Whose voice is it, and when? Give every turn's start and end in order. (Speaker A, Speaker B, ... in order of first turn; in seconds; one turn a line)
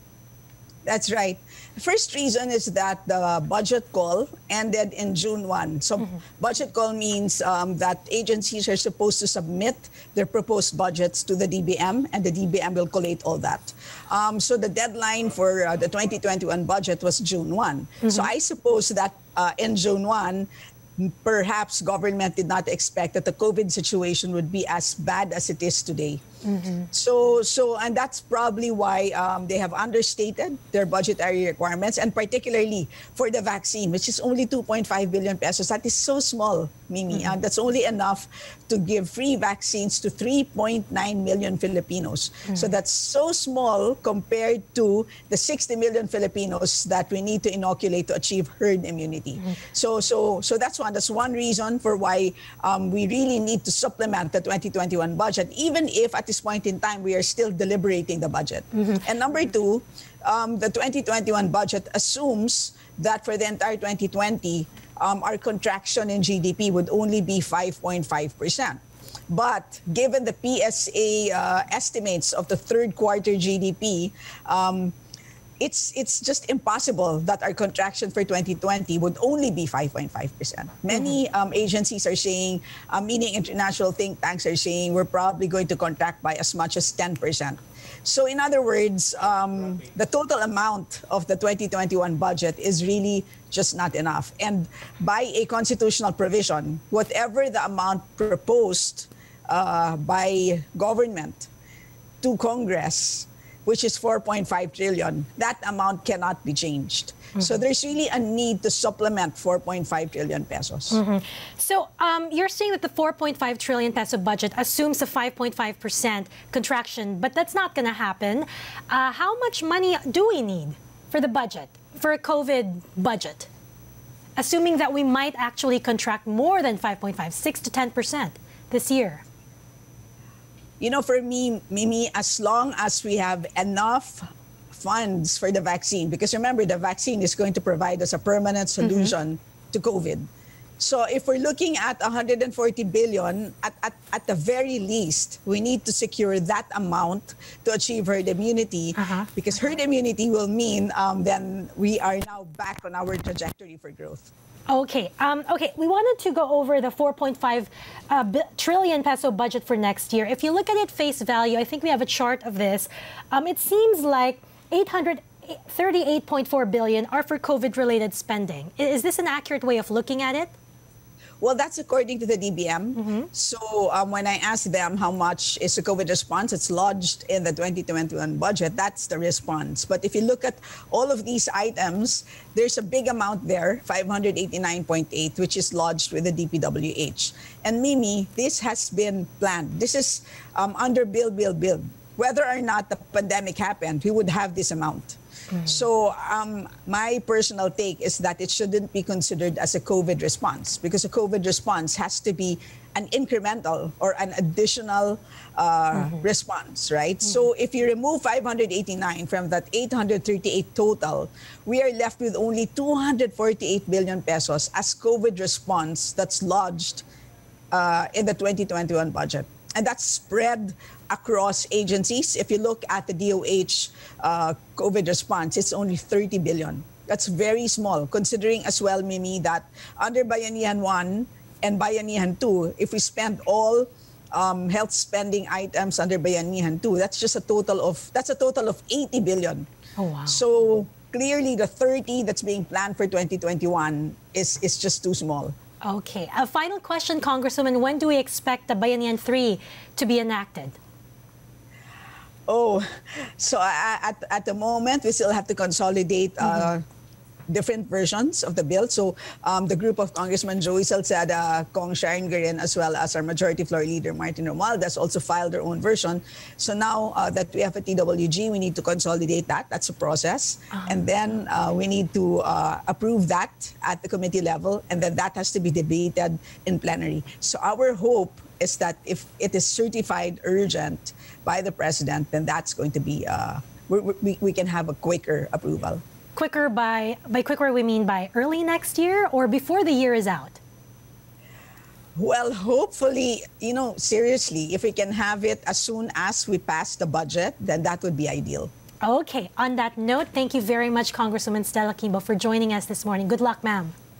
Speaker A: 0.8-26.2
Speaker B: 18.0-18.3
Speaker B: 26.4-26.9
Speaker A: 26.9-75.0
Speaker B: 58.8-59.0
Speaker A: 75.6-101.5
Speaker A: 102.2-111.0
Speaker B: 110.9-123.5
Speaker B: 124.4-129.2
Speaker A: 130.8-140.3
Speaker B: 138.8-139.1
Speaker A: 140.8-154.3
Speaker B: 148.9-149.3
Speaker B: 154.7-170.6
Speaker A: 171.4-217.1
Speaker B: 172.9-173.3
Speaker B: 195.5-195.8
Speaker B: 205.9-206.2
Speaker A: 217.7-239.7
Speaker B: 240.0-240.4
Speaker A: 240.3-245.5
Speaker B: 245.8-250.8
Speaker A: 252.5-256.8
Speaker B: 256.4-256.7
Speaker A: 257.5-286.0
Speaker B: 286.3-290.6
Speaker A: 292.2-298.7
Speaker B: 299.0-303.9